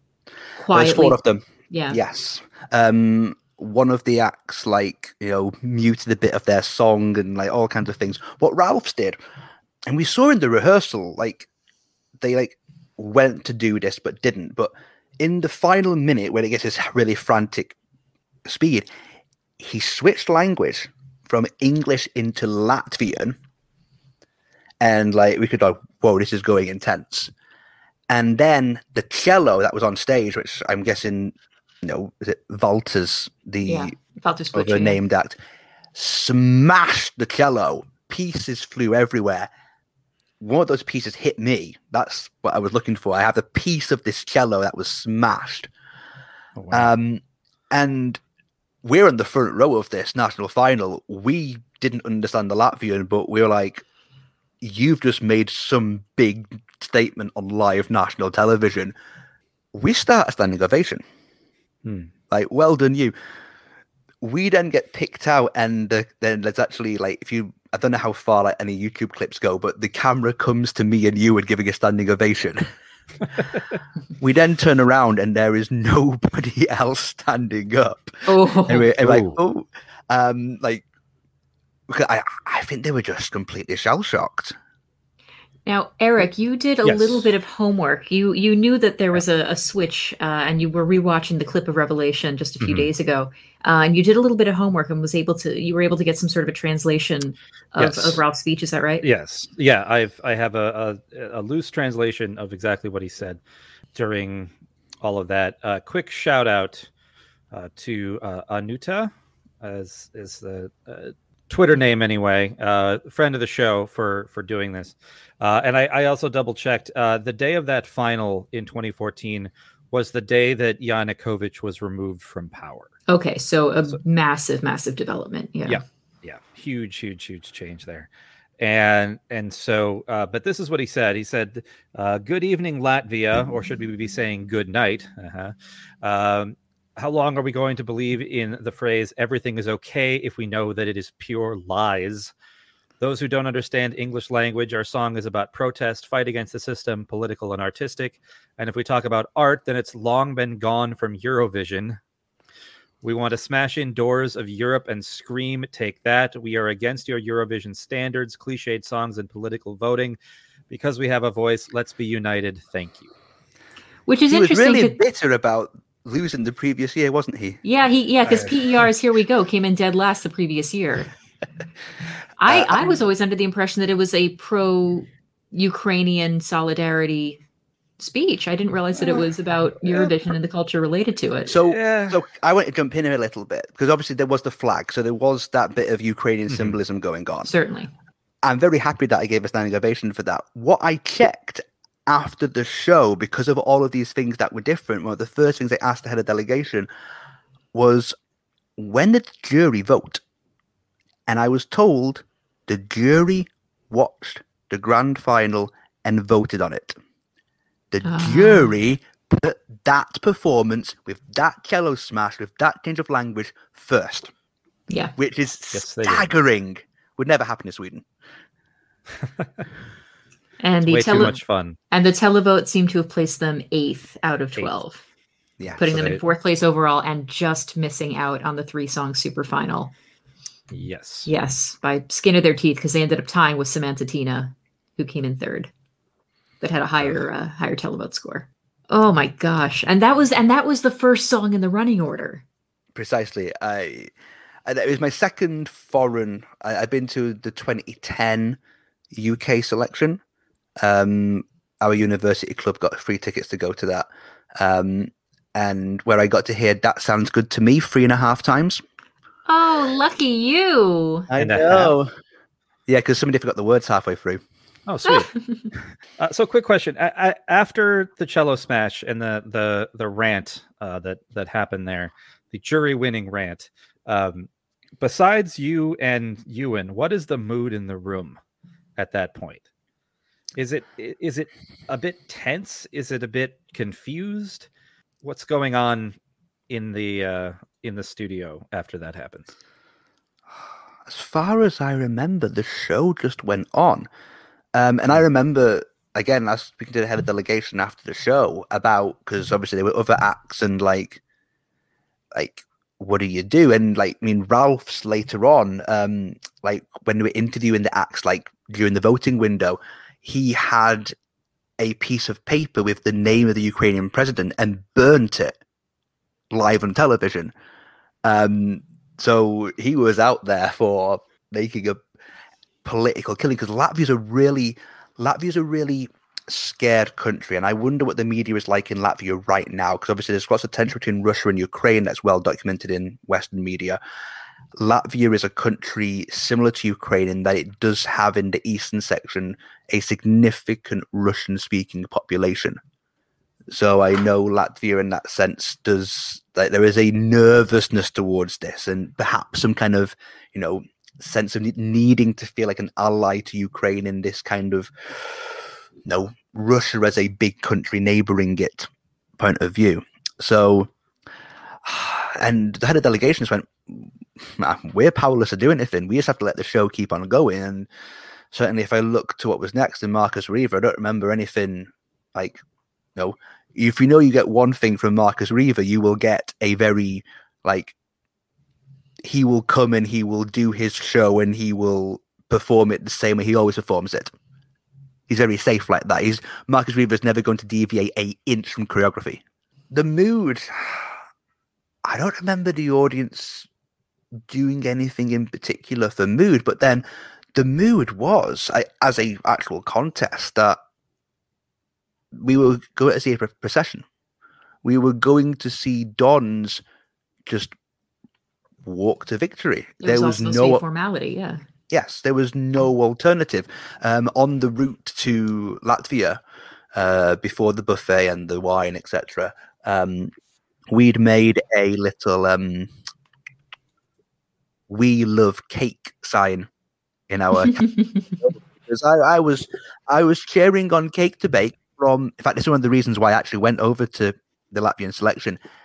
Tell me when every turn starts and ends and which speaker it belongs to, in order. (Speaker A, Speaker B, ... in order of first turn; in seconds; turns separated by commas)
Speaker A: 0.6-1.2, Speaker B: 0.7-9.2, Speaker A: 1.7-2.0, Speaker B: 9.9-11.5, Speaker B: 12.2-17.8, Speaker B: 18.5-18.9, Speaker B: 19.6-23.4, Speaker B: 24.8-27.3, Speaker B: 28.1-34.0, Speaker A: 33.7-35.0, Speaker B: 34.5-35.4, Speaker B: 35.9-39.5, Speaker B: 40.4-45.7, Speaker C: 46.6-46.9, Speaker B: 46.7-48.2, Speaker B: 48.8-53.8, Speaker B: 54.6-59.0, Speaker B: 59.7-61.0, Speaker C: 61.9-62.1, Speaker B: 62.3-63.1, Speaker B: 64.2-72.7, Speaker B: 74.2-80.8, Speaker A: 78.3-78.9, Speaker C: 79.0-79.4, Speaker B: 81.9-84.5, Speaker A: 85.7-99.0, Speaker C: 86.8-87.3, Speaker C: 92.6-92.9, Speaker C: 97.8-98.2, Speaker C: 99.0-103.4, Speaker C: 104.0-104.5, Speaker C: 105.0-106.9, Speaker C: 107.5-122.9, Speaker A: 123.1-125.8, Speaker C: 125.7-128.1, Speaker C: 128.6-142.3, Speaker C: 143.0-152.0, Speaker C: 153.0-160.2, Speaker C: 160.7-163.1, Speaker A: 164.1-165.0, Speaker B: 164.3-167.6, Speaker A: 167.6-171.1, Speaker A: 172.4-177.4, Speaker B: 172.5-172.8, Speaker A: 178.0-181.5, Speaker C: 179.0-179.3, Speaker B: 181.5-187.5, Speaker C: 181.6-182.2, Speaker C: 186.5-186.8, Speaker A: 187.4-187.9, Speaker B: 188.4-196.9, Speaker B: 197.7-198.2, Speaker B: 198.8-200.2, Speaker B: 201.3-207.0, Speaker B: 207.9-214.3, Speaker A: 208.0-208.7, Speaker A: 214.9-215.1, Speaker B: 215.2-218.1, Speaker C: 215.7-216.3, Speaker A: 220.6-221.4, Speaker C: 220.9-221.8, Speaker A: 221.9-225.0, Speaker B: 225.6-226.1, Speaker A: 225.8-229.9, Speaker C: 225.9-226.2, Speaker C: 230.7-231.3, Speaker A: 231.3-235.7, Speaker A: 236.6-242.4, Speaker B: 242.9-244.1, Speaker B: 244.7-248.6, Speaker B: 249.1-250.2, Speaker B: 250.8-258.8, Speaker A: 259.5-261.3, Speaker B: 261.3-262.1, Speaker C: 261.4-261.9, Speaker B: 262.9-264.4, Speaker C: 264.9-265.4, Speaker A: 265.1-265.7, Speaker C: 266.2-278.4, Speaker C: 279.0-279.6, Speaker C: 280.6-284.7, Speaker C: 285.2-286.2, Speaker C: 286.7-289.5, Speaker B: 291.1-294.1, Speaker B: 294.8-301.2, Speaker B: 302.3-311.1, Speaker B: 311.8-315.6, Speaker B: 316.5-317.5, Speaker B: 318.2-322.0, Speaker B: 322.8-334.0, Speaker B: 334.8-342.8, Speaker B: 343.7-360.9, Speaker B: 361.8-367.9, Speaker B: 368.5-372.6, Speaker B: 373.2-377.9, Speaker B: 379.2-384.3, Speaker B: 385.3-391.2, Speaker B: 392.1-393.7, Speaker B: 394.5-400.8, Speaker B: 402.3-404.1, Speaker B: 404.8-406.8, Speaker B: 407.5-407.7, Speaker B: 408.8-410.8, Speaker A: 410.0-411.6, Speaker B: 411.9-416.4, Speaker B: 416.9-420.3, Speaker B: 420.9-422.9, Speaker B: 424.9-426.7, Speaker B: 427.3-427.9, Speaker B: 428.4-435.6